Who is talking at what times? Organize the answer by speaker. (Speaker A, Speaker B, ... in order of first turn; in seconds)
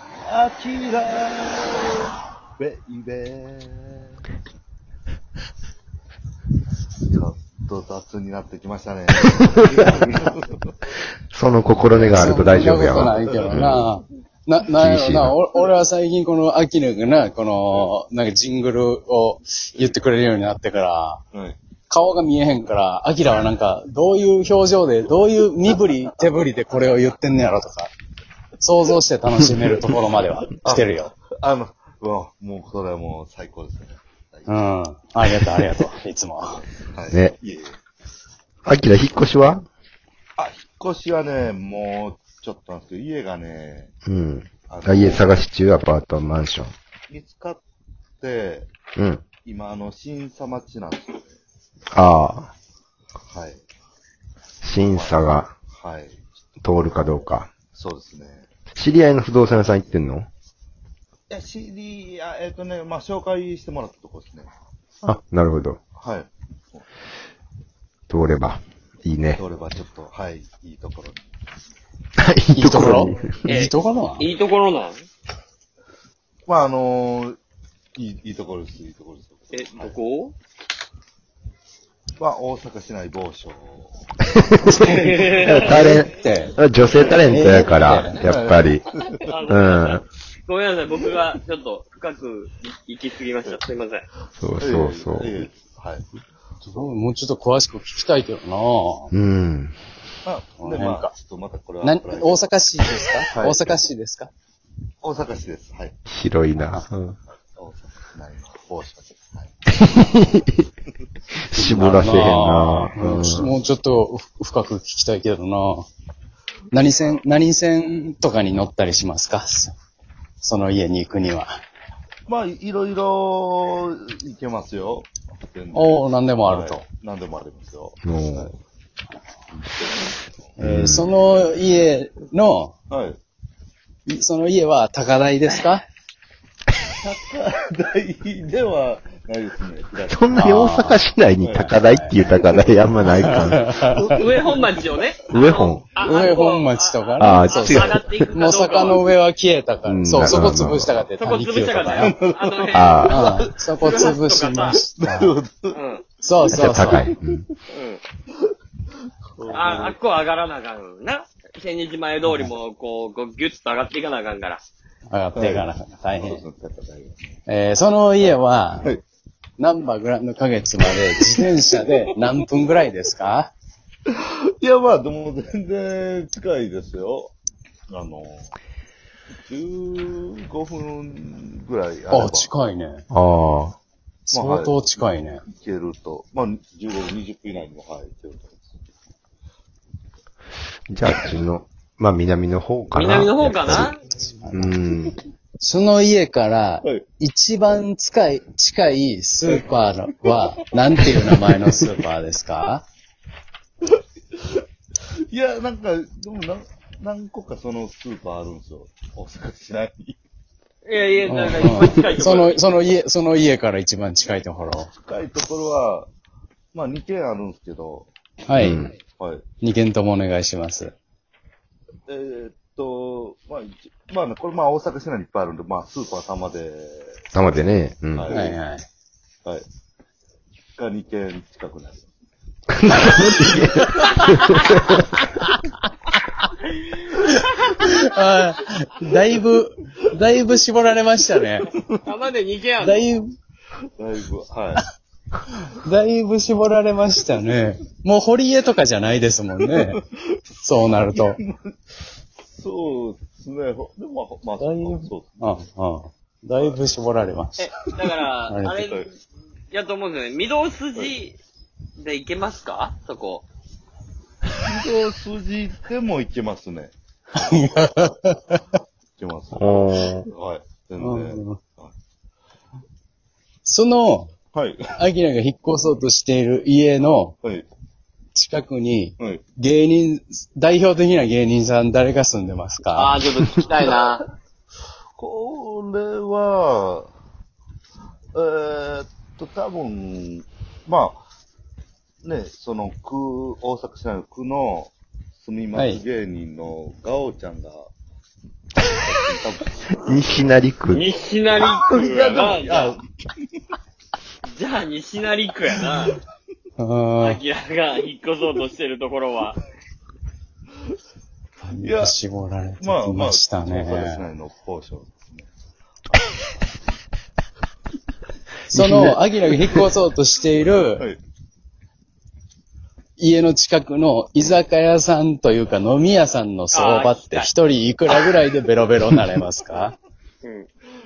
Speaker A: 0.2-2.0, 2.6-4.2, 7.1-10.8, 11.9-12.4, 13.1-13.7, 30.6-34.5, 36.5-37.8, 40.4-43.9, 44.7-45.4, 47.1-47.6, 48.2-48.7, 49.4-51.3, 53.3-53.6, 54.8-56.2, 56.7-58.5, 61.3-64.5, 66.0-66.8, 69.3-71.3, 76.5-77.4, 78.0-80.0, 82.2-84.1, 88.1-89.6, 94.6-96.0, 100.2-102.5, 103.3-103.8, 105.0-106.0, 107.5-109.6, 113.0-113.3, 122.3-128.6, 129.5-131.4, 132.9-133.2, 137.0-140.3, 141.4-141.7, 143.9-145.0, 152.0-154.1, 155.0-155.8, 156.4-157.3, 159.3-160.0, 165.3-167.4, 174.1-177.3, 177.9-178.5, 179.5-182.5, 184.3-184.8, 185.4-188.8, 205.3-210.2, 214.9-216.1, 216.7-218.1, 219.2-219.4, 222.1-227.5, 228.1-228.6, 230.8-232.1, 233.0-233.8, 244.0-244.8, 251.1-251.7, 252.5-255.4, 258.8-259.1, 264.6-268.2, 269.2-271.9, 274.5-274.8, 285.1-287.1, 288.3-291.2, 292.2-297.9, 298.9-300.0, 301.6-303.0, 311.8-312.2, 312.8-315.5, 320.9-321.2
Speaker B: 11.3-13.9, 14.7-15.4, 38.6-39.6, 44.0-46.7, 49.0-49.2, 51.9-52.5, 54.6-55.5, 56.6-57.5, 58.7-60.3, 65.0-65.8, 68.1-69.4, 72.2-73.3, 85.3-88.9, 89.5-90.0, 94.4-95.3, 99.1-99.8, 106.1-107.2, 109.7-110.5, 111.5-113.5, 128.0-128.5, 130.6-131.1, 140.1-143.7, 145.3-145.9, 147.2-148.2, 149.8-151.1, 152.7-153.2, 156.5-157.4, 183.1-183.8, 190.9-193.9, 194.5-195.2, 218.6-218.9, 227.3-228.3, 232.7-235.0, 269.5-270.3, 300.0-301.0
Speaker C: 12.1-21.2, 21.9-27.9, 28.6-31.1, 34.5-36.6, 72.6-74.3, 84.7-86.6, 87.2-88.2, 96.6-99.1, 100.6-101.1, 101.8-104.3, 106.5-106.8, 111.5-115.9, 116.7-119.7, 120.4-121.5, 125.7-126.8, 130.6-132.7, 134.1-135.8, 140.3-141.0, 141.5-142.1, 143.2-144.2, 146.0-152.2, 153.0-155.4, 156.2-157.1, 162.2-162.5, 165.1-166.4, 167.5-168.9, 169.6-173.5, 182.1-183.0, 184.3-185.4, 194.3-194.7, 195.6-202.8, 211.3-214.9, 218.5-218.8, 219.6-220.9, 228.3-228.8, 237.1-241.7, 242.8-243.3, 245.6-250.0, 250.6-251.4, 254.6-257.9, 258.5-258.8, 267.4-268.6, 271.0-271.6, 273.6-274.3, 275.0-277.4, 278.3-283.1, 295.7-296.0, 306.8-307.4, 311.6-314.2, 318.7-321.0, 323.2-329.9
Speaker D: 73.5-75.0, 79.5-80.3, 84.8-85.8, 89.3-94.1, 144.1-149.1, 151.2-153.2, 153.8-154.8, 155.7-156.0, 157.7-158.0, 159.5-164.6, 192.9-194.0, 210.8-212.6, 242.0-243.0, 257.6-259.1, 259.7-261.4, 262.0-263.4, 282.9-284.2, 300.9-302.9, 304.5-306.1, 307.2-309.6, 326.7-327.5